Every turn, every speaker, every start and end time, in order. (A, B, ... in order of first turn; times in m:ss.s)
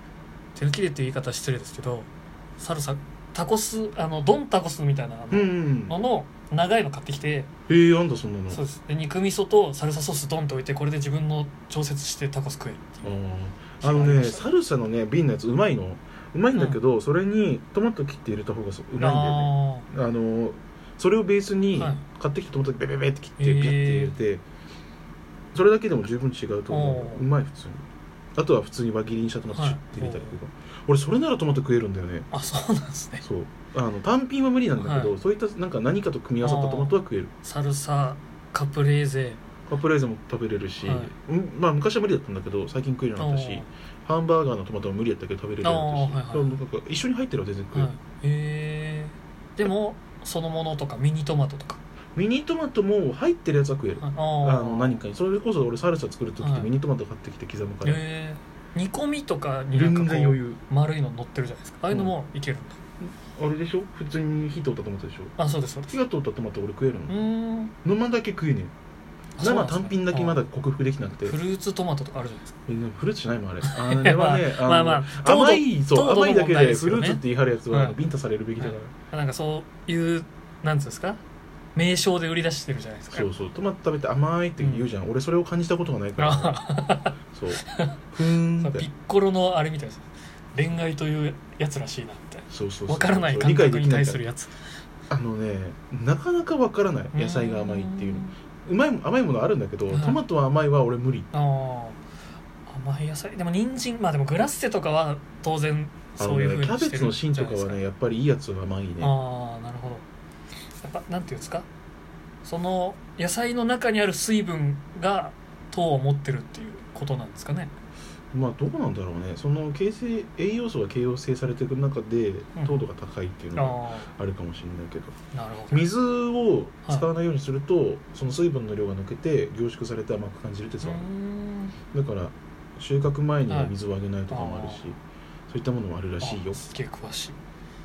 0:00.5-0:07.5 A
0:05.3-0:06.0 B
0:07.7-0:08.6 B
0:08.5-0:13.0 A
0:13.0-0:24.4 B
0:13.8-0:14.4 A
0:16.5-0:16.8 A
0:19.0-0:19.9 A
0:21.7-0:22.0 A
0:23.4-0:24.1 A
0:25.5-0:27.8 B
0:26.7-0:27.2 A
0:28.3-0:32.3 B
0:29.5-0:30.4 A
0:32.3-0:33.2 A
0:33.2-0:37.3 B
0:34.8-0:35.1 A
0:36.4-0:39.4 A
0:39.7-0:47.9 B
0:40.8-0:41.1 A
0:43.2-0:43.7 A
0:45.6-0:46.5 A
0:47.7-0:51.8 A
0:52.1-0:58.0 B
0:54.0-0:55.0 A
0:56.4-0:56.7 A
0:57.8-1:02.8 A
0:59.7-1:00.6 B
1:01.9-1:02.1 B
1:03.0-1:05.3 B
1:05.4-1:06.0 A
1:05.9-1:07.2 B
1:07.1-1:07.7 A
1:07.8-1:08.7 B
1:09.4-1:10.4 A
1:09.4-1:11.4 B
1:11.2-1:12.5 A
1:12.7-1:18.9 B
1:13.6-1:18.0 A
1:18.6-1:21.2 A
1:21.7-1:23.3 A
1:23.1-1:26.6 B
1:24.6-1:24.9 A
1:26.2-1:27.1 A
1:27.3-1:28.9 B
1:28.6-1:34.5 A
1:32.5-1:34.2 B
1:35.1-1:41.3 B
1:37.1-1:38.4 A
1:39.9-1:40.2 A
1:41.3-1:42.0 A
1:42.7-1:47.8 A
1:46.2-1:49.1 B
1:49.0-1:50.0 A
1:50.7-1:51.6 A
1:52.4-1:57.7 A
1:58.3-2:05.2 B
2:02.6-2:02.8 A
2:03.6-2:04.1 A
2:05.3-2:05.8 A
2:05.7-2:11.1 B
2:10.8-2:11.8 A
2:11.9-2:15.0 B
2:13.5-2:13.7 A
2:14.3-2:14.8 A
2:15.5-2:16.6 B
2:16.2-2:17.4 A